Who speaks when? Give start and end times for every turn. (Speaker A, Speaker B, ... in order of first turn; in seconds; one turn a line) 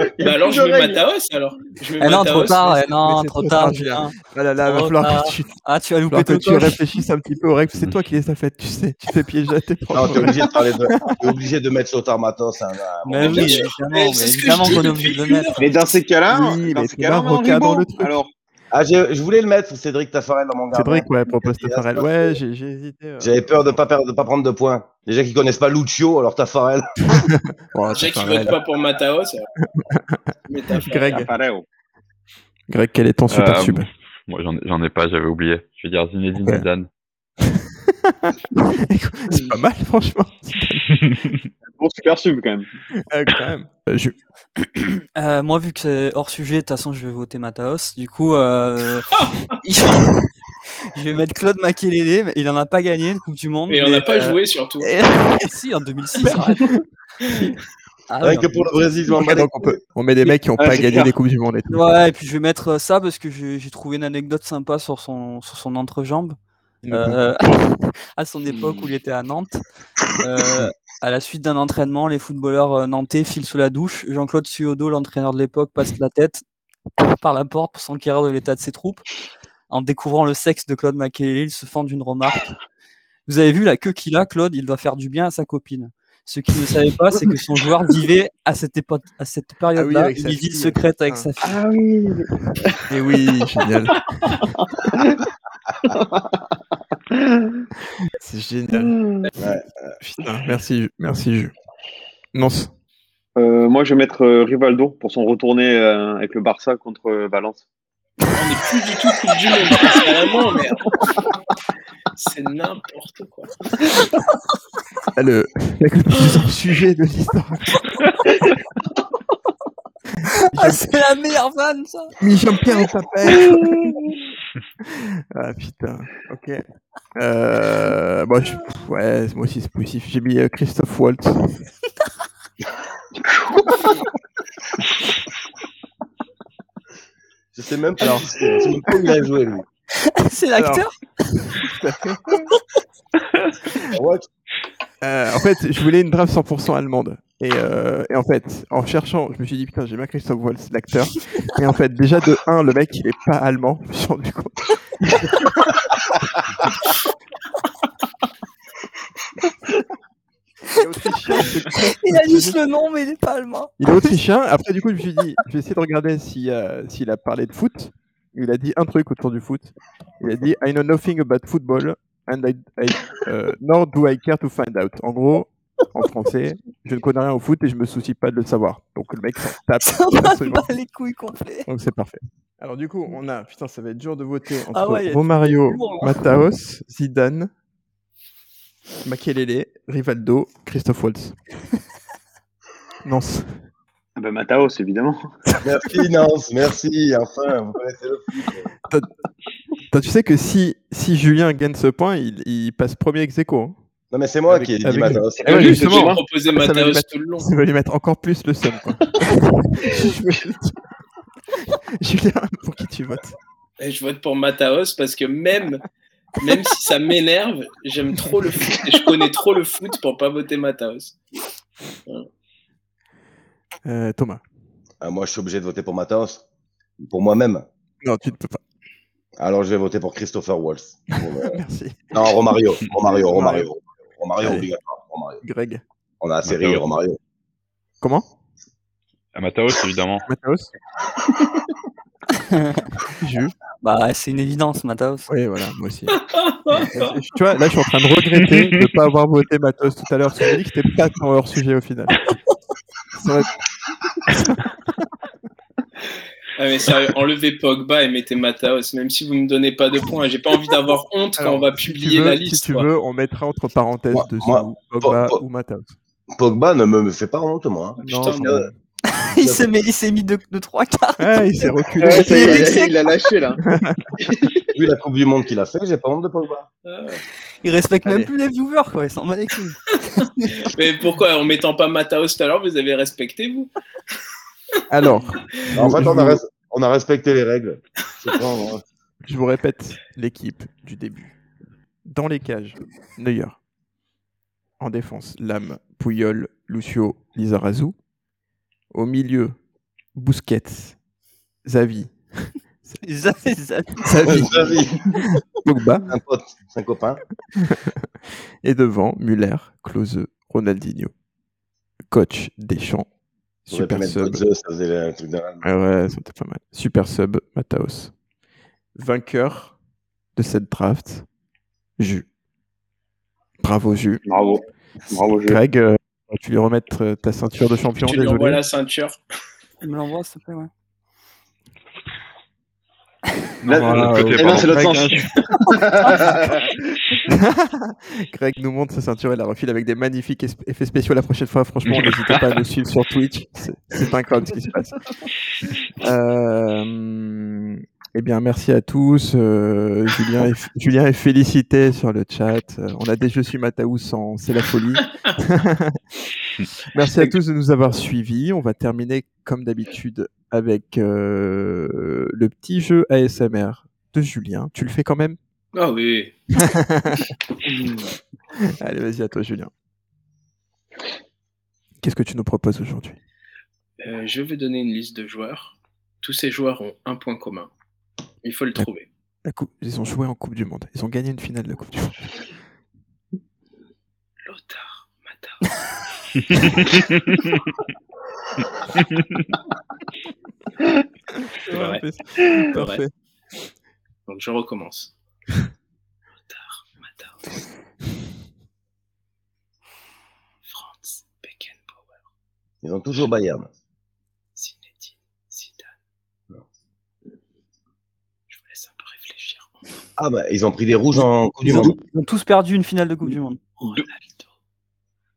Speaker A: 0.2-1.0
Speaker B: 0.2-2.9
Speaker C: 2.0-6.8
Speaker D: 2.9-5.5
Speaker D: 6.1-10.5
Speaker E: 9.9-13.7
Speaker C: 13.0-15.6
Speaker B: 13.3-15.8
Speaker A: 15.6-18.3
Speaker D: 16.3-18.1
Speaker E: 18.7-22.4
Speaker D: 20.7-23.8
Speaker E: 23.2-27.2
Speaker D: 27.1-28.6
Speaker B: 27.9-29.5
Speaker D: 29.8-30.2
Speaker B: 30.5-31.3
Speaker D: 30.7-31.3
Speaker A: 31.1-31.6
Speaker D: 32.7-33.9
Speaker F: 33.3-36.9
Speaker D: 37.4-41.0
Speaker A: 41.7-42.7
Speaker D: 43.1-44.1
Speaker C: 45.1-49.1
Speaker B: 49.1-49.4
Speaker C: 49.6-50.1
Speaker C: 50.9-56.7
Speaker B: 53.7-54.9
Speaker D: 56.2-56.7
Speaker C: 58.1-58.6
Speaker E: 58.2-59.8
Speaker D: 59.1-61.8
Speaker A: 60.6-61.1
Speaker C: 61.7-66.3
Speaker D: 66.8-67.6
Speaker C: 66.9-67.6
Speaker C: 68.2-69.6
Speaker C: 70.2-76.4
Speaker C: 77.0-79.0
Speaker C: 79.7-82.5
Speaker C: 83.3-91.6
Speaker D: 89.7-91.3
Speaker A: 91.4-92.9
Speaker D: 92.9-94.5
Speaker A: 95.9-96.5
Speaker A: 97.1-97.6
Speaker D: 98.1-99.5
Speaker A: 98.8-99.3
Speaker E: 99.4-99.9
Speaker D: 100.0-101.5
Speaker D: 102.3-102.7
Speaker A: 103.3-107.6
Speaker B: 108.3-110.9
Speaker B: 112.2-113.6
Speaker D: 115.1-118.1
Speaker D: 120.4-121.0
Speaker C: 120.5-122.1
Speaker D: 122.2-124.1
Speaker D: 124.8-126.6
Speaker D: 127.2-131.6
Speaker A: 133.2-133.9
Speaker E: 137.5-139.6
Speaker D: 138.0-138.3
Speaker C: 140.1-141.4
Speaker D: 140.6-140.9
Speaker D: 141.4-142.5
Speaker E: 143.9-144.2
Speaker D: 145.0-154.8
Speaker D: 160.7-162.6
Speaker C: 161.7-164.2
Speaker D: 163.8-180.7
Speaker C: 179.8-181.7
Speaker D: 181.7-187.5
Speaker C: 184.7-186.2
Speaker D: 189.0-191.4
Speaker D: 193.0-193.6
Speaker A: 194.2-195.3
Speaker D: 195.5-196.0
Speaker E: 195.6-198.7
Speaker D: 199.9-203.8
Speaker E: 204.1-205.8
Speaker D: 204.5-210.8
Speaker A: 205.4-206.2
Speaker B: 205.5-207.5
Speaker D: 211.6-213.3
Speaker B: 213.8-215.8
Speaker B: 216.4-221.2
Speaker D: 223.8-224.4
Speaker E: 225.0-226.4
Speaker E: 227.0-227.6
Speaker D: 228.0-228.6
Speaker E: 229.4-231.6
Speaker D: 231.2-232.2
Speaker E: 232.1-235.4
Speaker D: 232.8-233.7
Speaker D: 234.4-234.7
Speaker D: 235.4-235.8
Speaker E: 236.2-237.2
Speaker F: 236.5-236.8
Speaker D: 238.0-238.3
Speaker F: 239.3-240.2
Speaker D: 240.2-240.7
Speaker C: 242.4-242.8
Speaker D: 243.2-243.5
Speaker C: 243.8-245.3
Speaker D: 245.3-246.2
Speaker B: 246.1-247.2
Speaker D: 246.8-252.3
Speaker F: 248.4-248.7
Speaker D: 253.2-253.5
Speaker D: 254.2-254.7
Speaker B: 256.6-262.9
Speaker D: 261.4-265.9
Speaker E: 264.1-265.4
Speaker E: 266.4-268.7
Speaker B: 268.0-268.6
Speaker D: 268.0-268.8
Speaker C: 269.1-272.9
Speaker E: 269.4-269.7
Speaker D: 271.2-272.6
Speaker A: 272.0-273.6
Speaker D: 273.6-274.1
Speaker E: 274.7-276.7
Speaker B: 276.8-277.2
Speaker C: 277.6-280.7
Speaker D: 278.0-278.3
Speaker B: 280.6-283.7
Speaker D: 284.9-286.4
Speaker E: 285.7-288.8
Speaker D: 289.2-291.3
Speaker D: 292.0-293.6
Speaker D: 294.8-297.9
Speaker D: 298.9-299.6
Speaker D: 300.1-301.0
Speaker D: 301.6-303.0
Speaker C: 303.0-304.8
Speaker D: 304.0-306.1
Speaker E: 304.2-305.0
Speaker E: 306.1-307.2
Speaker D: 307.6-308.0
Speaker D: 308.6-311.1
Speaker D: 312.1-313.1
Speaker D: 313.6-314.4
Speaker E: 313.7-315.6
Speaker D: 315.6-318.1
Speaker D: 318.9-319.7
Speaker D: 320.4-321.2
Speaker D: 322.0-322.2
Speaker D: 323.6-324.2
Speaker A: 324.2-325.6
Speaker D: 325.4-328.6
Speaker B: 328.0-329.2
Speaker C: 329.8-330.7
Speaker F: 333.6-335.3
Speaker A: 333.6-336.7
Speaker D: 333.7-335.2
Speaker D: 337.3-345.0
Speaker F: 341.9-342.4
Speaker D: 346.0-356.0
Speaker D: 356.9-365.4
Speaker B: 365.7-366.5
Speaker D: 366.5-367.3
Speaker D: 368.6-369.7
Speaker D: 372.0-373.2
Speaker B: 374.0-377.7
Speaker B: 378.4-379.1
Speaker D: 379.4-382.3
Speaker B: 384.4-386.0
Speaker F: 386.5-387.5
Speaker F: 389.0-389.4
Speaker D: 391.3-393.1
Speaker B: 391.7-392.0
Speaker B: 392.6-393.0
Speaker B: 394.3-395.1
Speaker B: 396.5-397.6
Speaker B: 400.6-402.1
Speaker E: 402.8-403.7
Speaker B: 404.6-405.9
Speaker B: 408.5-409.8
Speaker E: 410.2-411.9
Speaker C: 411.6-414.0
Speaker A: 413.8-414.1
Speaker B: 414.1-414.5